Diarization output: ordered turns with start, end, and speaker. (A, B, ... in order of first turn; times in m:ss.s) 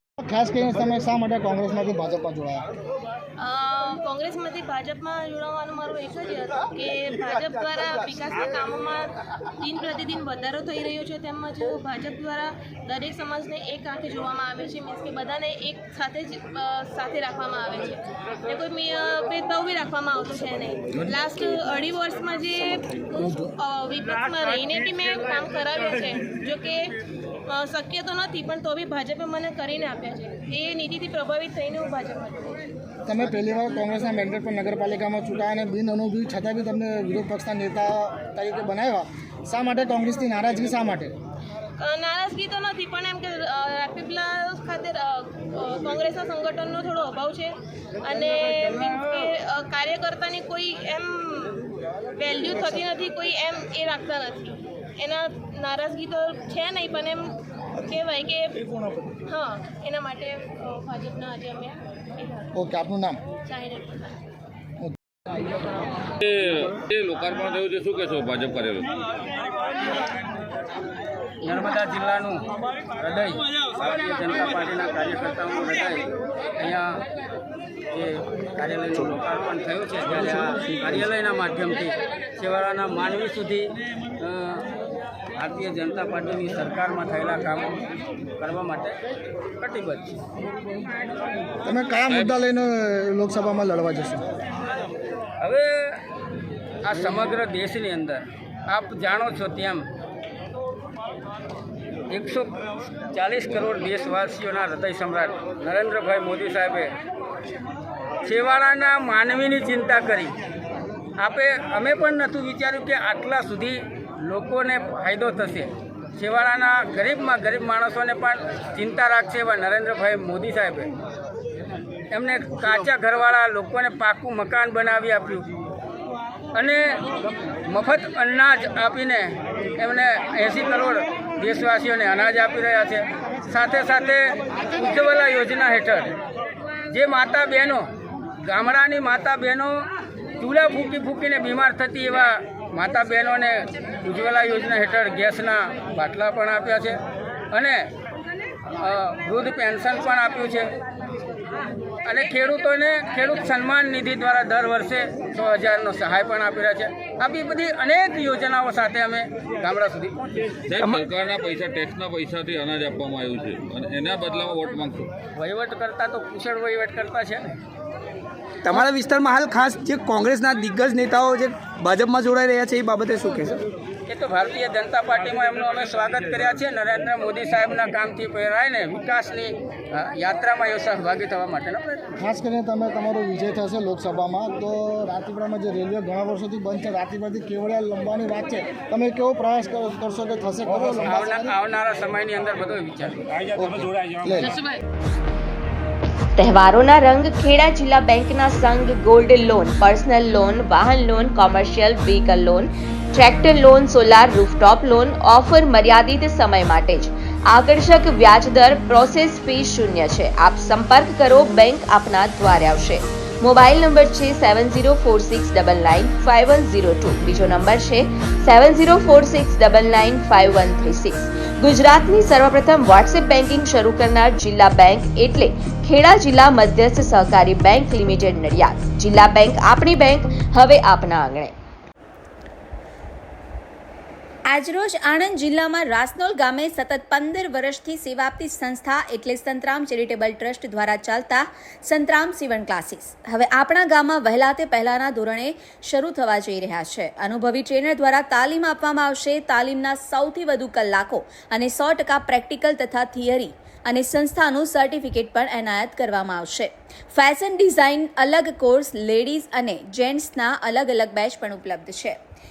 0:00.2-0:02.6 A
0:03.4-0:26.9 B
0:27.5-0:32.6 B
0:33.1-0:41.1 A
0:41.8-0:51.6 B
0:52.2-0:58.6 B
0:59.3-1:02.5 B
1:02.6-1:03.2 A
1:03.4-1:04.1 B
1:06.2-1:08.9 C
1:11.4-1:12.4 D
1:13.0-1:16.1 D
1:16.6-1:17.0 D
1:17.9-1:23.7 D
1:24.2-1:24.6 D
1:25.4-1:27.8 D
1:28.4-1:29.0 D
1:29.6-1:30.2 D
1:31.6-1:34.2 A
1:35.4-1:36.0 D
1:36.8-1:39.8 D
1:42.1-1:42.5 D
1:43.1-1:46.9 D
1:48.3-1:50.3 D
1:51.2-2:00.9 D
2:02.1-2:05.5 D
2:06.6-2:07.0 D
2:07.7-2:16.1 D
2:16.9-2:17.8 D
2:18.5-2:19.8 D
2:20.4-2:27.0 D
2:27.5-2:27.9 D
2:28.8-2:30.7 D
2:32.0-2:40.5 D
2:40.7-2:45.1 C
2:45.4-2:47.5 D
2:48.6-2:53.6 E
2:54.1-3:02.0 D
3:02.2-3:11.6 A
3:10.7-3:13.5 D
3:13.6-3:14.6 A
3:16.4-3:51.5 F
3:54.5-4:22.2 G